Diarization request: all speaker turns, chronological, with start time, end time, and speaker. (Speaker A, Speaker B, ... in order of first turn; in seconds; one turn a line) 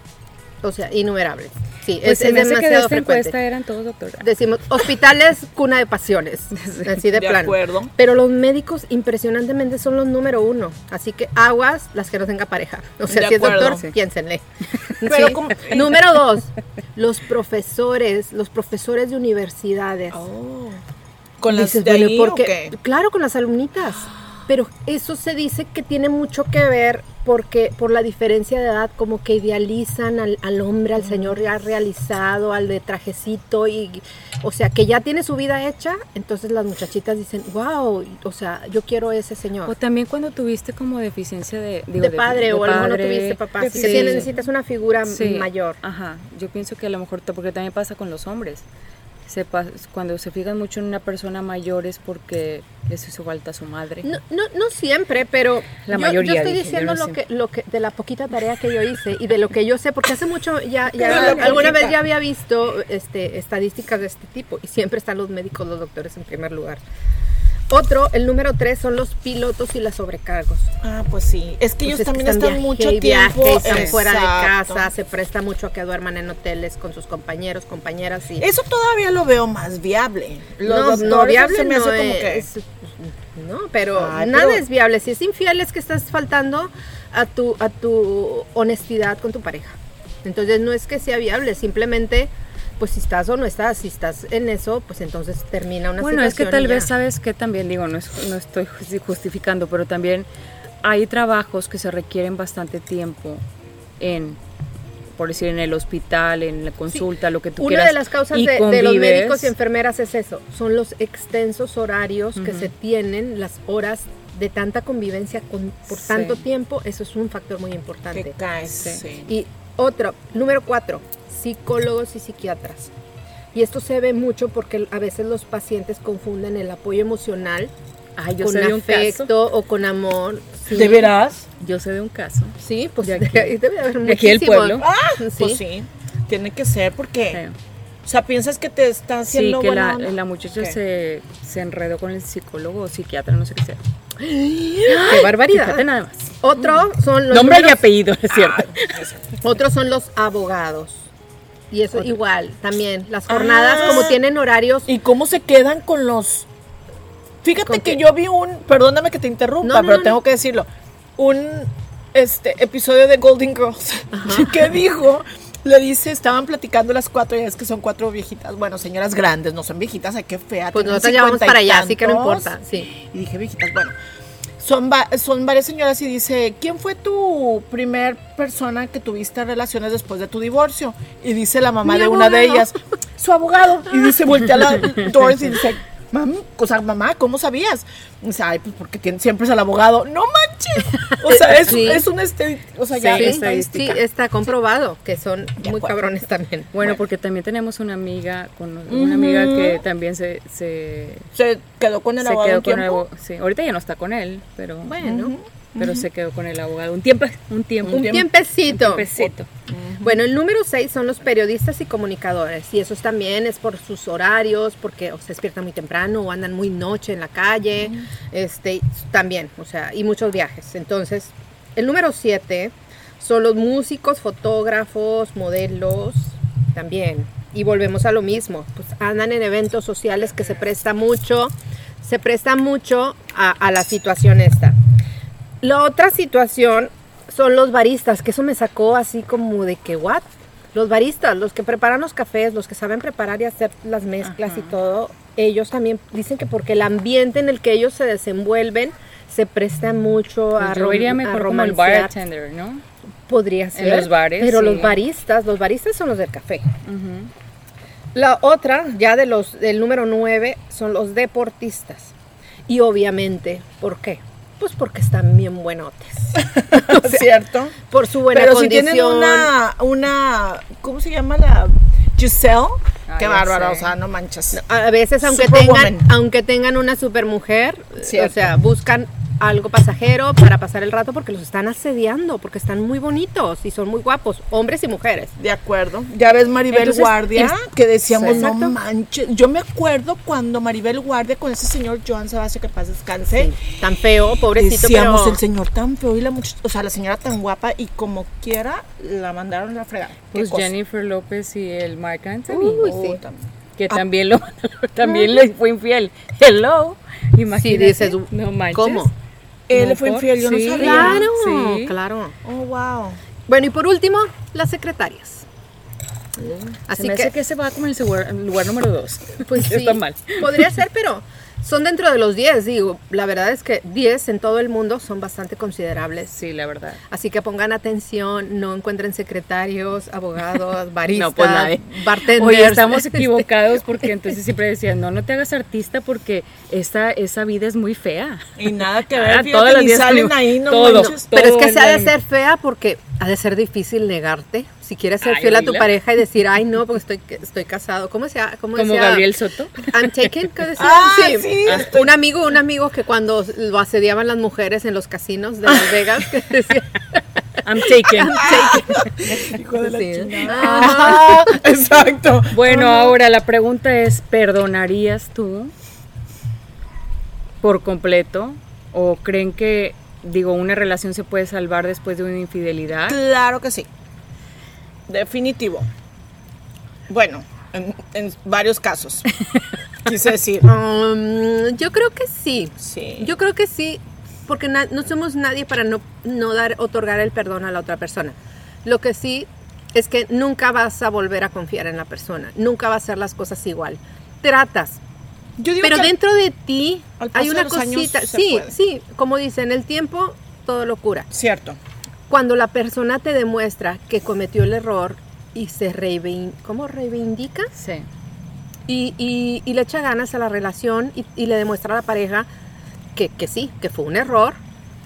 Speaker A: 0.6-3.3
Speaker B: 2.0-4.3
Speaker A: 4.2-20.2
Speaker B: 6.5-6.9
Speaker C: 7.1-7.9
Speaker C: 13.1-13.8
Speaker C: 15.0-16.0
Speaker C: 20.1-20.8
Speaker C: 21.4-22.8
Speaker A: 21.5-39.7
Speaker B: 39.6-44.3
Speaker A: 42.0-45.8
Speaker C: 43.6-44.3
Speaker B: 45.0-48.6
Speaker B: 49.3-54.1
Speaker A: 54.0-66.8
Speaker B: 55.8-57.2
Speaker C: 61.0-62.0
Speaker B: 61.1-61.5
Speaker A: 67.7-70.7
Speaker C: 70.8-74.9
Speaker A: 71.8-78.5
Speaker C: 78.4-82.5
Speaker A: 80.6-96.9
Speaker C: 83.9-84.6
Speaker B: 96.0-100.3
Speaker B: 100.8-103.4
Speaker B: 104.0-104.4
Speaker B: 105.2-109.5
Speaker A: 107.6-118.3
Speaker B: 112.3-112.7
Speaker B: 115.9-116.4
Speaker C: 118.1-119.3
Speaker B: 118.8-119.0
Speaker A: 119.3-122.9
Speaker A: 123.5-127.7
Speaker B: 128.2-129.3
Speaker A: 128.4-131.1
Speaker C: 130.7-131.5
Speaker B: 131.6-134.8
Speaker A: 132.6-135.6
Speaker C: 134.8-137.4
Speaker C: 138.0-140.8
Speaker B: 139.3-143.8
Speaker A: 144.2-145.8
Speaker B: 144.8-146.8
Speaker A: 146.4-147.8
Speaker B: 147.3-149.0
Speaker C: 148.3-149.2
Speaker A: 149.4-151.1
Speaker A: 151.7-154.9
Speaker C: 153.3-154.2
Speaker C: 154.9-156.5
Speaker C: 157.4-173.9
Speaker A: 157.6-158.0
Speaker A: 159.6-160.2
Speaker A: 164.1-164.6
Speaker A: 170.7-172.9
Speaker C: 174.6-194.0
Speaker A: 181.8-182.7
Speaker A: 191.2-192.0
Speaker B: 193.0-194.0
Speaker A: 193.1-196.7
Speaker C: 195.6-195.9
Speaker B: 196.7-201.3
Speaker C: 198.9-199.8
Speaker C: 201.3-203.0
Speaker B: 202.2-205.0
Speaker A: 204.9-205.3
Speaker C: 205.0-206.0
Speaker B: 205.8-209.5
Speaker A: 207.9-209.1
Speaker C: 207.9-208.3
Speaker C: 209.2-210.2
Speaker A: 210.0-234.8
Speaker A: 235.6-252.1
Speaker B: 244.2-244.7
Speaker B: 250.6-252.8
Speaker A: 253.3-256.7
Speaker B: 253.7-255.0
Speaker B: 256.8-257.3
Speaker A: 258.1-262.1
Speaker A: 262.7-267.3
Speaker C: 266.4-267.8
Speaker A: 267.9-269.5
Speaker C: 268.3-274.6
Speaker B: 273.1-273.9
Speaker A: 274.5-285.3
Speaker C: 275.2-276.1
Speaker C: 278.0-278.4
Speaker C: 285.4-293.6
Speaker B: 286.7-287.5
Speaker A: 286.9-287.5
Speaker B: 288.1-288.4
Speaker A: 288.2-288.8
Speaker A: 293.3-295.4
Speaker C: 294.4-300.7
Speaker B: 300.3-302.9
Speaker A: 302.5-303.2
Speaker C: 302.8-303.4
Speaker B: 303.8-309.1
Speaker A: 307.6-309.1
Speaker C: 309.7-311.3
Speaker B: 309.7-311.9
Speaker A: 310.8-312.3
Speaker C: 312.4-313.2
Speaker A: 313.5-315.4
Speaker A: 316.9-317.3
Speaker B: 316.9-320.7
Speaker A: 319.4-326.3
Speaker B: 326.3-327.0
Speaker A: 327.1-333.4
Speaker B: 331.1-338.6
Speaker C: 338.6-341.3
Speaker B: 339.1-342.1
Speaker A: 340.9-357.2
Speaker B: 345.2-345.9
Speaker B: 348.7-350.2
Speaker C: 350.8-352.1
Speaker C: 355.7-356.0
Speaker B: 357.6-358.8
Speaker A: 357.8-361.6
Speaker C: 358.4-363.1
Speaker B: 362.5-365.7
Speaker B: 367.6-373.2
Speaker C: 373.1-373.9
Speaker C: 375.1-375.9
Speaker C: 377.1-379.3
Speaker C: 380.0-380.7
Speaker A: 380.6-395.0
Speaker C: 382.8-383.3
Speaker C: 395.6-396.1
Speaker A: 395.8-401.3
Speaker C: 397.2-398.7
Speaker C: 401.3-401.8
Speaker A: 402.3-407.7
Speaker B: 407.7-408.1
Speaker A: 408.9-412.5
Speaker A: 413.1-414.6